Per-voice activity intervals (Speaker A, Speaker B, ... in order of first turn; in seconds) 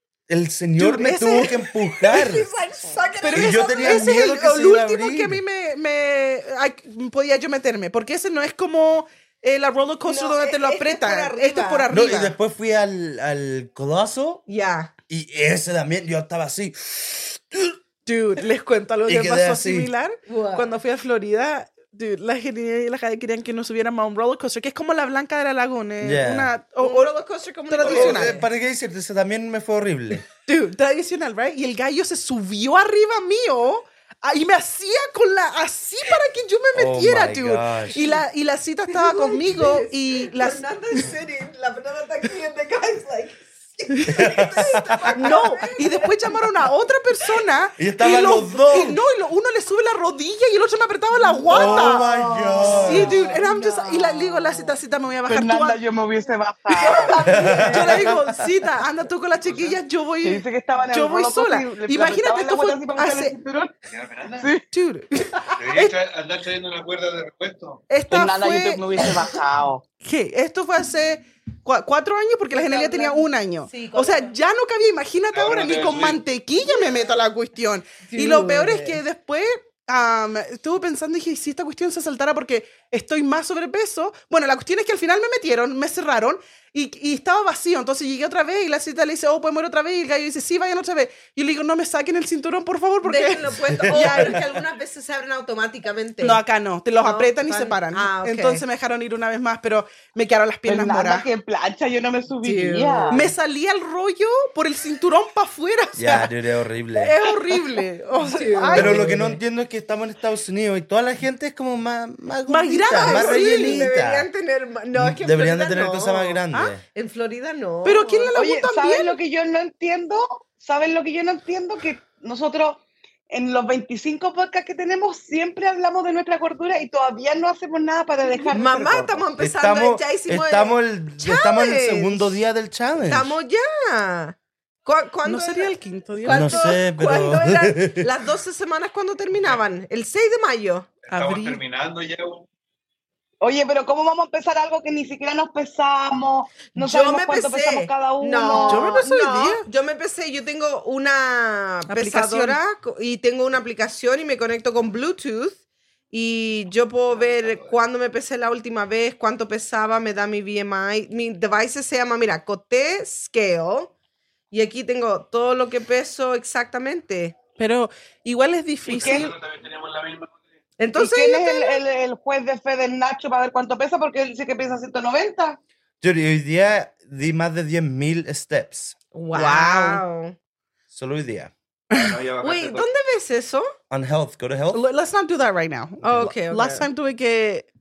Speaker A: 0.3-2.5, 3.3-5.4, 11.9-14.4, 15.1-17.8, 19.1-19.9, 26.0-26.5, 27.8-30.2, 36.7-38.2, 44.0-45.3, 47.8-49.0, 51.5-53.2, 57.2-58.2, 93.7-94.4, 106.0-107.2, 108.7-114.3, 114.9-116.8, 129.4-133.3, 136.3-138.1, 176.0-178.9, 180.9-181.5, 183.9-184.8
Speaker B: 0.8-1.6, 3.2-12.3, 18.1-27.1, 27.7-28.4, 30.4-40.6, 45.1-52.0, 52.8-55.8, 56.8-63.3, 64.7-65.9, 67.9-69.0, 70.0-94.4, 96.2-101.3, 103.1-106.3, 107.0-109.3, 112.5-113.9, 117.8-119.2, 135.2-136.8, 141.1-141.6, 148.7-149.6, 151.9-152.6, 167.6-169.3, 179.3-180.0, 184.7-187.7
Speaker C: 1.9-4.2, 10.0-11.9, 14.5-14.9, 20.3-20.7, 26.8-28.4, 38.9-46.3, 52.1-53.6, 56.8-58.0, 72.5-74.3, 76.7-77.1, 78.0-79.0, 93.0-96.4, 97.0-98.6, 102.4-103.3, 108.2-109.3, 112.9-116.4, 116.9-118.3, 128.5-132.4, 133.1-140.9, 146.7-155.6, 156.1-163.9, 164.5-167.3, 170.8-171.8, 179.1-180.3, 182.4-183.7, 186.0-186.9
Speaker D: 51.5-54.7, 55.3-57.8, 60.2-63.7, 68.1-69.8, 100.7-103.2, 118.3-129.2, 143.4-148.9, 168.9-169.3, 170.9-175.6
Speaker E: 59.5-59.8, 63.9-64.5, 65.6-67.8, 75.3-76.2, 141.1-142.4, 157.1-157.8, 168.9-170.4, 181.9-182.9